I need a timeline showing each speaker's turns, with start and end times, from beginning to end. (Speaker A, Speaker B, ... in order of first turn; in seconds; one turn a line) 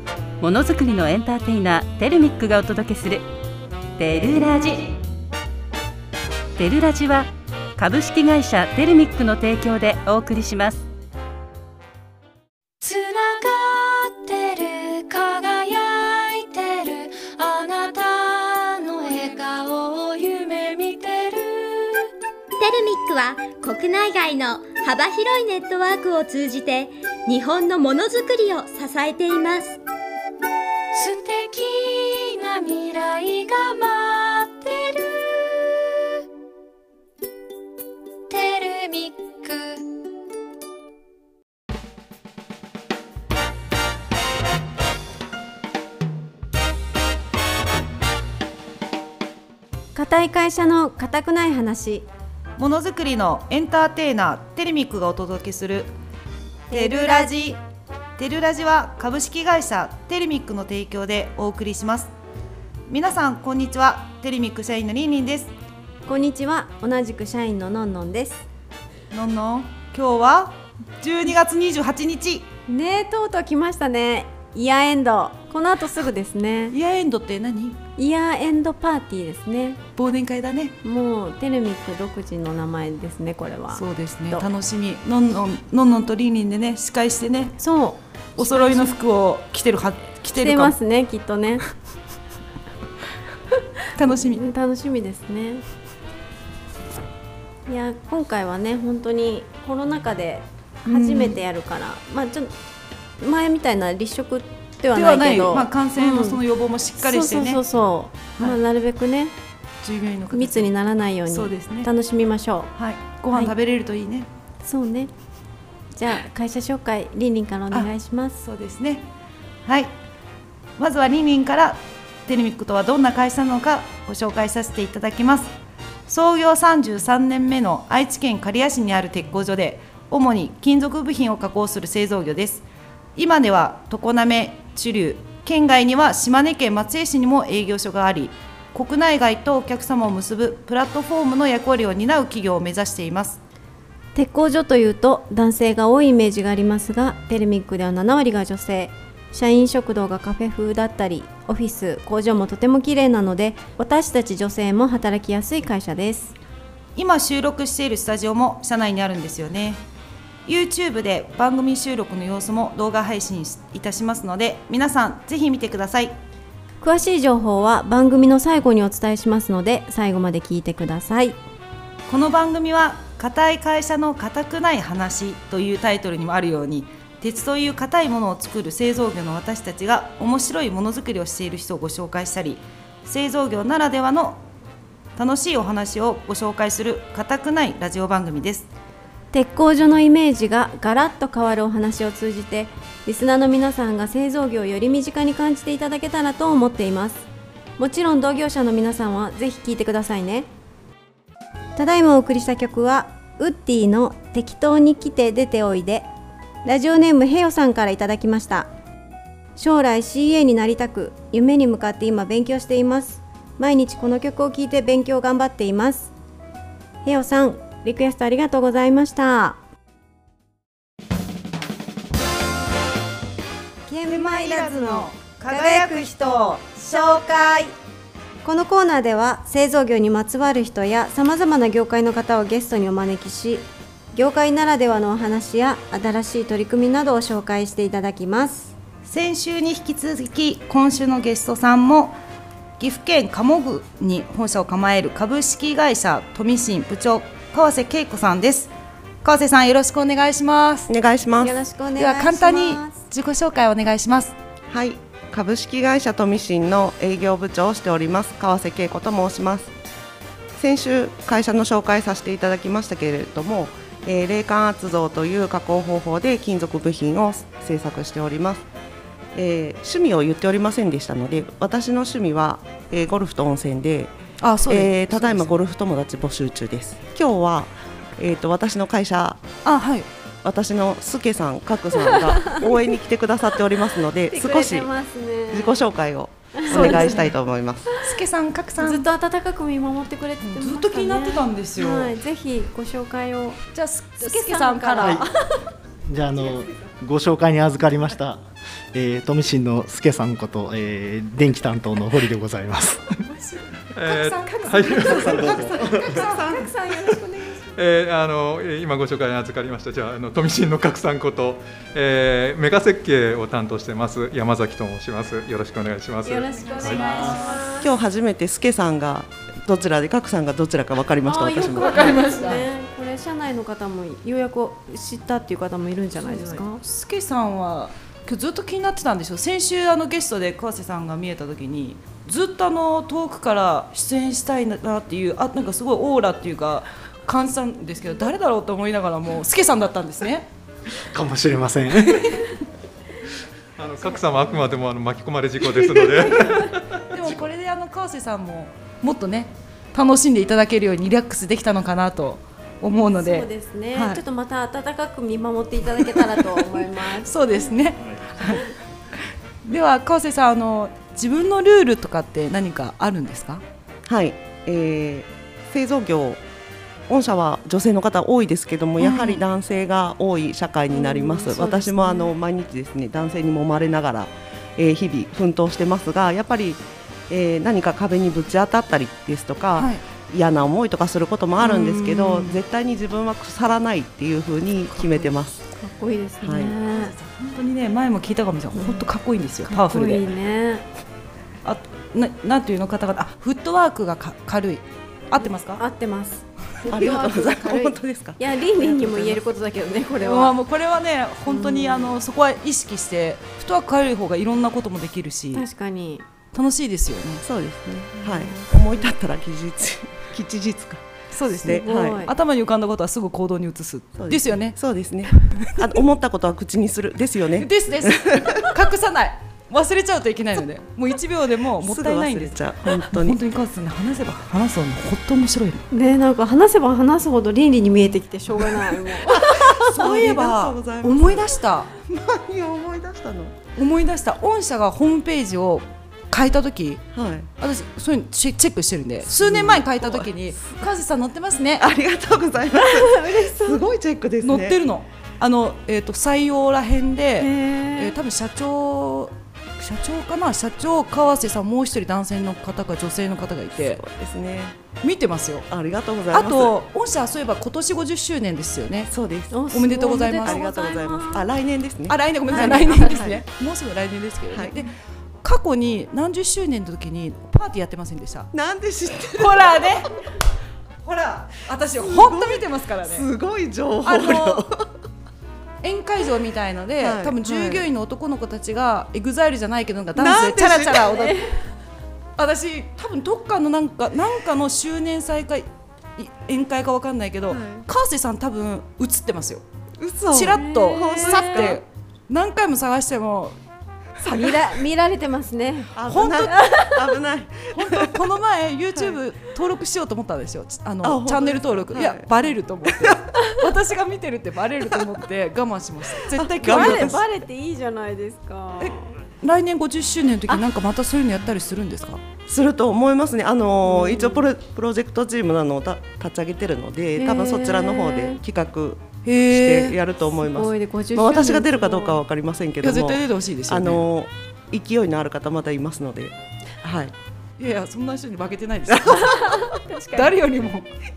Speaker A: 0.4-3.2
Speaker A: 4.0-5.0
Speaker A: 6.6-10.8
Speaker B: 12.8-22.1
Speaker C: 22.6-29.8
Speaker B: 30.9-35.8
Speaker B: 38.3-39.9
Speaker D: 49.9-52.1
Speaker E: 52.6-55.9
Speaker D: 56.7-57.5
Speaker E: 56.7-57.6
Speaker E: 58.2-62.1
Speaker E: 62.9-65.5
Speaker D: 66.0-68.4
Speaker E: 69.1-72.5
Speaker D: 72.7-76.7
Speaker E: 76.7-77.8
Speaker D: 78.0-79.8
Speaker E: 80.0-80.8
Speaker D: 80.8-84.5
Speaker E: 83.7-87.6
Speaker D: 87.6-88.9
Speaker E: 88.4-90.7
Speaker D: 90.3-91.6
Speaker E: 93.9-94.5
Speaker D: 94.3-95.6
Speaker D: 97.7-102.5
Speaker E: 100.9-101.4
Speaker D: 103.2-106.4
Speaker E: 104.9-107.6
Speaker D: 107.0-109.3
Speaker E: 109.8-110.7
Speaker D: 110.3-112.7
Speaker E: 111.2-111.9
Speaker E: 112.8-114.3
Speaker D: 114.6-115.1
Speaker D: 115.9-118.4
Speaker E: 117.7-119.0
Speaker E: 119.7-119.9
Speaker E: 120.8-125.5
Speaker E: 126.1-132.6
Speaker E: 133.2-143.4
Speaker D: 144.1-156.3
Speaker E: 156.9-159.8
Speaker E: 160.4-166.1
Speaker D: 166.8-171.3
Speaker E: 172.1-184.4
Speaker E: 185.2-188.7
Speaker D: 189.3-197.2
Speaker D: 197.8-200.5
Speaker D: 201.8-206.1
Speaker D: 206.6-208.7
Speaker D: 209.6-216.1
Speaker D: 217.0-219.6
Speaker D: 223.9-227.7
Speaker E: 224.1-226.4
Speaker D: 228.4-238.7
Speaker E: 239.0-242.2
Speaker E: 242.8-248.7
Speaker E: 249.2-250.9
Speaker F: 250.9-251.6
Speaker D: 251.4-252.9
Speaker E: 252.0-254.3
Speaker F: 254.7-259.7
Speaker F: 260.6-268.6
Speaker F: 269.3-274.1
Speaker E: 274.4-275.5
Speaker F: 274.7-279.4
Speaker E: 279.6-280.1
Speaker F: 280.4-284.9
Speaker D: 282.1-282.6
Speaker D: 284.3-285.8
Speaker F: 285.5-287.9
Speaker D: 286.6-287.2
Speaker E: 286.7-287.3
Speaker E: 288.0-289.1
Speaker D: 288.8-293.6
Speaker E: 290.4-292.1
Speaker E: 293.7-295.2
Speaker D: 294.2-295.5
Speaker G: 296.1-298.4
Speaker G: 298.9-303.2
Speaker E: 303.3-306.6
Speaker H: 303.9-305.7
Speaker G: 305.1-306.2
Speaker F: 305.6-306.7
Speaker D: 306.3-307.6
Speaker H: 307.7-317.2
Speaker D: 316.2-317.9
Speaker E: 316.6-317.7
Speaker F: 317.8-322.2
Speaker D: 321.2-326.8
Speaker E: 321.6-322.7
Speaker E: 326.2-340.5
Speaker G: 341.1-342.5
Speaker E: 342.1-342.4
Speaker H: 343.8-346.7
Speaker E: 347.1-354.2
Speaker D: 353.0-357.6
Speaker E: 356.2-358.7
Speaker E: 359.6-363.6
Speaker F: 364.1-366.4
Speaker F: 367.1-385.6
Speaker E: 369.0-369.4
Speaker D: 370.9-372.3
Speaker E: 379.8-380.0
Speaker E: 381.6-382.6
Speaker E: 384.9-385.3
Speaker D: 385.8-387.1
Speaker F: 386.4-386.7
Speaker E: 386.9-390.2
Speaker D: 388.7-389.0
Speaker D: 389.7-390.8
Speaker E: 391.6-395.8
Speaker D: 395.4-400.5
Speaker F: 396.9-399.4
Speaker E: 400.2-405.6
Speaker D: 401.5-402.1
Speaker D: 405.5-406.2
Speaker E: 406.5-407.4
Speaker F: 407.4-411.0
Speaker E: 411.3-414.8
Speaker F: 411.6-412.3
Speaker D: 411.7-412.3
Speaker F: 414.2-418.6
Speaker E: 415.4-415.8
Speaker E: 417.6-425.8
Speaker F: 421.8-423.4
Speaker D: 425.9-429.5
Speaker F: 429.3-433.6
Speaker E: 429.3-431.9
Speaker E: 433.8-437.0
Speaker F: 437.1-437.5
Speaker E: 437.6-441.9
Speaker F: 439.3-440.3
Speaker F: 441.8-444.8
Speaker D: 442.8-443.8
Speaker E: 444.4-454.0
Speaker D: 447.4-448.1
Speaker F: 453.8-454.8
Speaker E: 455.0-455.7
Speaker F: 455.7-456.7
Speaker E: 456.3-459.1
Speaker F: 459.1-459.6
Speaker D: 459.5-461.4
Speaker E: 459.7-460.6
Speaker F: 460.4-463.4
Speaker E: 462.1-464.9
Speaker D: 462.5-463.2
Speaker F: 464.5-464.8
Speaker E: 465.4-468.5
Speaker F: 468.5-470.0
Speaker E: 469.3-470.1
Speaker E: 471.0-473.3
Speaker F: 472.0-474.9
Speaker E: 474.0-474.7
Speaker E: 475.8-481.4
Speaker F: 477.0-477.9
Speaker F: 480.1-481.2
Speaker D: 481.2-481.5
Speaker E: 482.4-489.6
Speaker F: 487.5-487.8
Speaker F: 490.0-491.8
Speaker E: 490.3-493.6
Speaker D: 490.5-491.7
Speaker D: 494.2-495.9
Speaker F: 495.9-498.2
Speaker E: 496.1-496.6
Speaker D: 496.5-497.0
Speaker E: 497.7-507.2
Speaker F: 501.0-503.2
Speaker F: 506.2-507.2
Speaker D: 506.6-509.1
Speaker E: 508.8-512.2
Speaker F: 512.5-527.1
Speaker D: 513.9-514.4
Speaker D: 517.2-518.4
Speaker E: 519.2-520.0
Speaker D: 520.4-522.2
Speaker E: 522.8-524.0
Speaker E: 527.6-530.9
Speaker D: 529.0-530.3